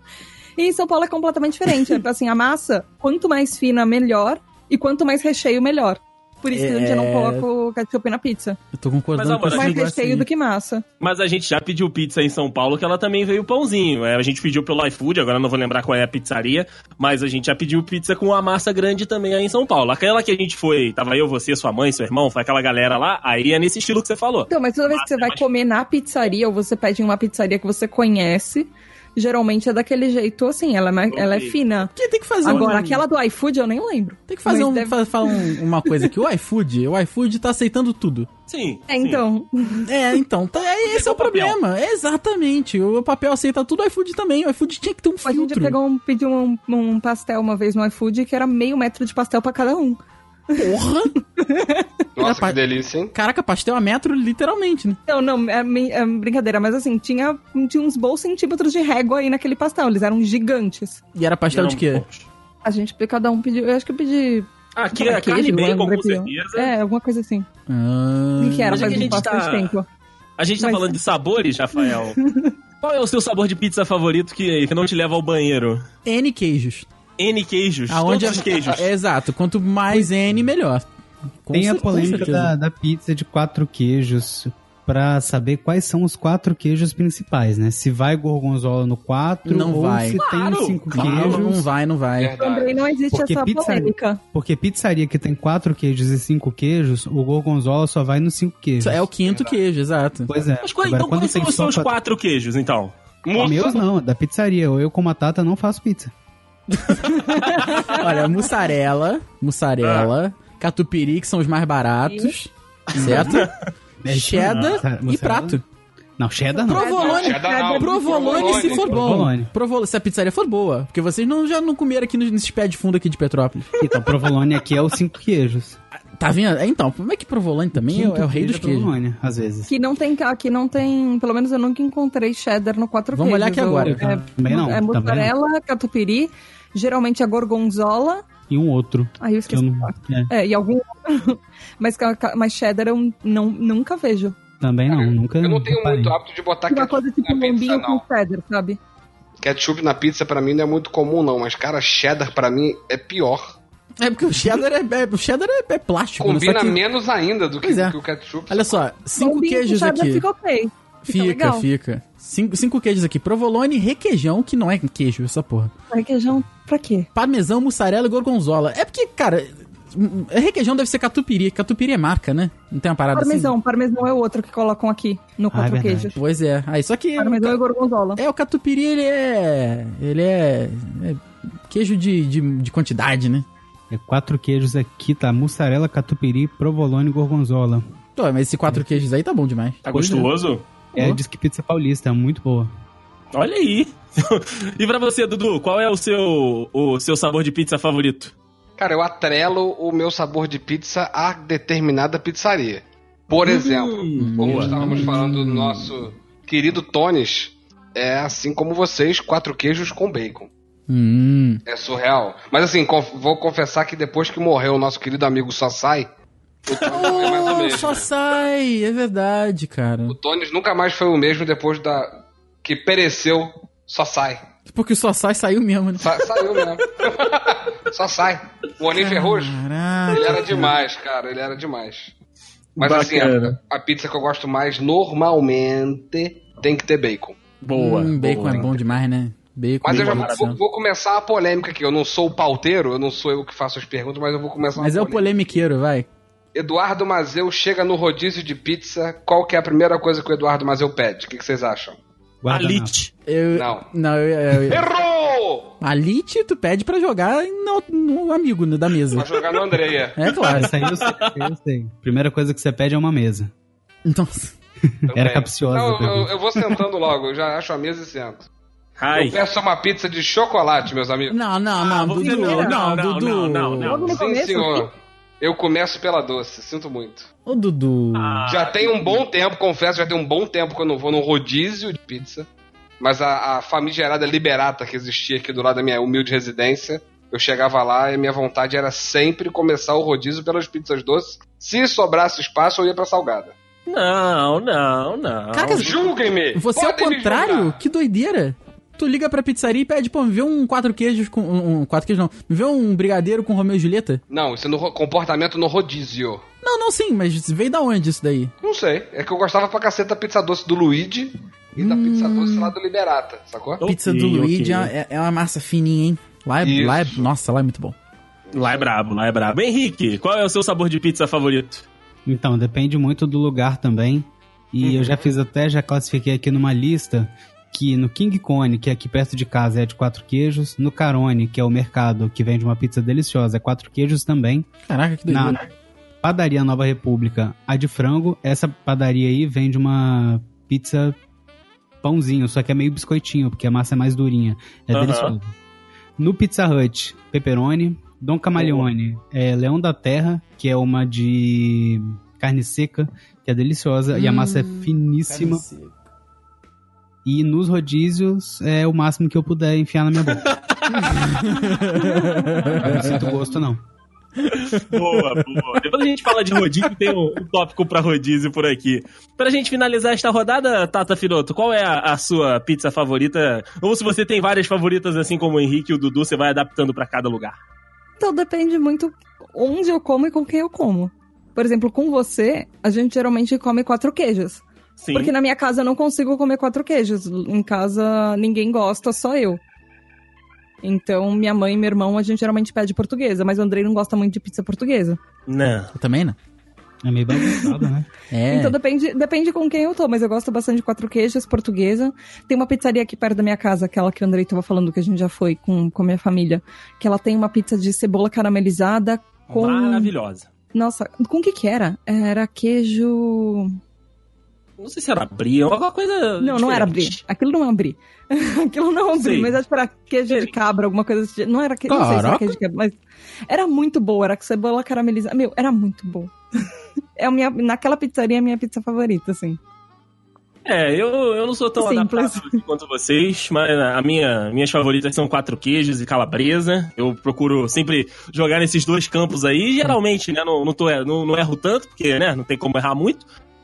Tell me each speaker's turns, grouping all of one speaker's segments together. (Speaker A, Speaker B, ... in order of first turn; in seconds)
Speaker A: 0.6-8.6, 9.5-10.8, 24.5-31.9, 32.4-36.1, 38.9-39.9, 45.2-50.0, 50.5-50.8, 51.4-51.9, 55.1-61.0, 62.6-67.5, 68.4-69.8, 70.6-71.0, 71.8-72.5, 92.4-94.2, 107.2-108.5, 112.0-112.3, 116.7-118.7, 129.7-138.2, 139.2-144.4, 146.7-148.8, 159.2-161.7, 165.9-167.1, 173.1-176.1, 177.2-178.2, 272.1-272.8, 273.8-274.9, 378.2-389.6, 390.8-395.2, 397.4-397.7, 398.5-410.1, 410.7-413.7, 416.4-426.3, 427.2-429.6, 431.8-432.6
Speaker B: 6.5-7.4, 8.7-10.3, 31.9-33.0, 34.3-38.3, 39.8-45.8, 50.5-51.1, 52.2-52.6, 53.1-55.0, 61.1-62.0, 67.7-69.2, 76.0-76.8, 77.9-80.8, 81.4-82.5, 89.4-90.2, 90.9-92.4, 98.8-100.3, 107.9-113.5, 114.1-115.6, 116.6-123.7, 126.2-128.9, 133.1-134.2, 154.0-156.8, 157.6-158.0, 158.5-160.2, 161.1-165.7, 167.1-173.5, 176.1-177.6, 178.2-183.4, 188.2-189.8, 204.2-205.9, 210.9-211.6, 216.7-220.2, 224.7-226.6, 228.9-230.7, 237.7-240.6, 244.8-246.1, 253.3-254.8, 255.8-259.3, 260.1-260.7, 264.0-264.5, 271.3-274.1, 277.4-278.4, 295.5-296.0, 296.5-304.2, 306.6-308.5, 311.8-312.7, 313.8-317.9, 334.9-335.7, 354.1-355.9, 361.0-363.3, 364.4-365.8, 395.9-396.4, 398.3-398.8, 421.9-422.6
Speaker C: 9.1-9.8, 11.0-25.4, 31.1-31.6, 38.5-39.2, 40.8-41.6, 61.5-62.2, 64.8-66.7, 68.7-69.7, 70.4-72.2, 72.8-75.8, 77.2-78.9, 81.9-82.3, 90.1-91.7, 100.6-103.7, 106.9-108.0, 109.8-110.1, 112.9-113.6, 114.4-114.8, 189.8-190.6, 193.3-198.3, 203.4-205.0, 232.8-233.6, 237.6-238.7, 239.8-240.4, 252.5-253.1, 260.2-261.5, 269.0-269.4, 271.8-274.1, 278.1-279.2, 293.9-296.1, 313.8-314.9, 318.5-321.9, 324.8-325.2, 344.9-345.3, 348.6-348.9, 360.3-361.4, 364.5-377.5, 385.0-385.3, 395.5-395.9, 409.5-410.5, 414.8-417.2, 419.1-419.6, 430.6-443.2
Speaker D: 52.2-53.1, 92.1-93.0, 99.2-99.6, 103.2-103.8, 117.0-119.1, 144.9-148.0, 149.4-153.6, 156.2-158.8, 198.8-210.5, 211.7-216.1, 216.7-218.1, 220.1-224.4, 226.0-232.1, 232.8-237.4, 238.5-238.8, 239.8-245.6, 246.5-252.0, 253.5-253.9, 254.5-255.8, 259.1-260.2, 265.1-268.5, 269.1-271.4, 274.0-277.3, 278.5-282.5, 283.0-293.5, 295.7-297.8, 304.3-306.4, 308.6-313.8, 316.6-317.3, 318.5-318.9
Speaker E: 81.5-91.5, 93.1-99.0, 100.3-101.9, 103.4-106.1, 114.0-115.6, 116.2-116.9, 118.8-119.5, 123.7-125.8, 127.7-129.7, 133.8-135.3, 138.5-140.3, 144.6-146.2, 175.5-176.1, 183.9-187.8, 189.9-190.3, 190.9-192.7, 252.4-252.9, 260.5-263.5, 264.9-266.8, 322.2-334.7, 335.3-335.6, 336.2-341.2, 342.0-345.5, 346.2-355.6, 357.2-360.5, 362.8-363.8, 397.0-398.1